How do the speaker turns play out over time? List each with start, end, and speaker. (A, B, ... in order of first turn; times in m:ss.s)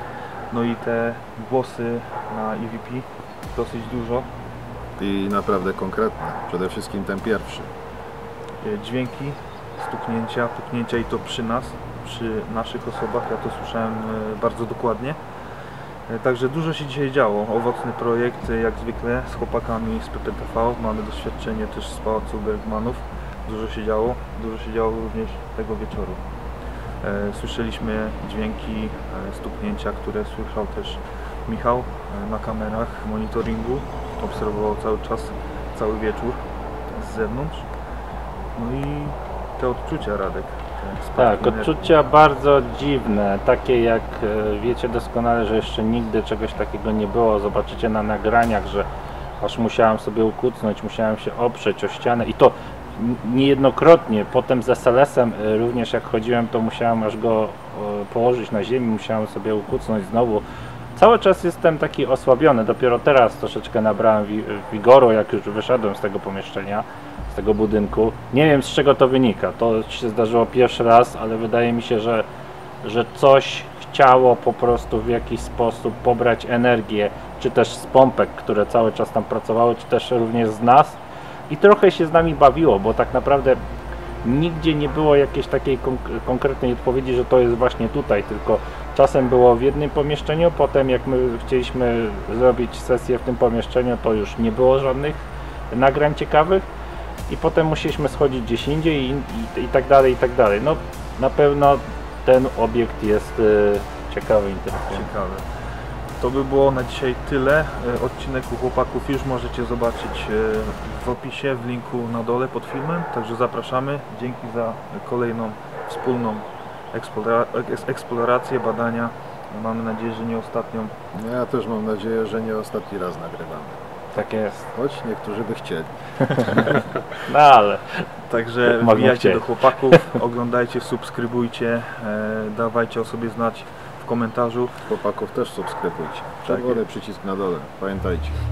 0:00.5-0:04.3 A
0:05.0-0:07.7 B
0:08.6-0:15.2 A
0:16.1-0:26.2 A
0:27.0-0:37.6 A
0:38.6-0:42.0 A
0:41.2-0:48.9 C
0:49.4-1:00.4 C
1:01.0-1:12.3 C
1:12.8-1:21.0 C
1:21.5-1:23.6 C
1:24.2-1:35.2 C
1:35.7-1:36.6 C
1:37.3-1:45.1 C
1:44.8-1:45.5 A
1:46.2-2:00.9 A
2:01.1-2:03.9 B
2:04.1-2:04.6 C
2:04.7-2:06.8 B
2:06.8-2:08.1 C
2:08.3-2:14.8 A
2:08.6-2:10.1 C
2:14.8-2:18.4 B
2:16.5-2:16.8 A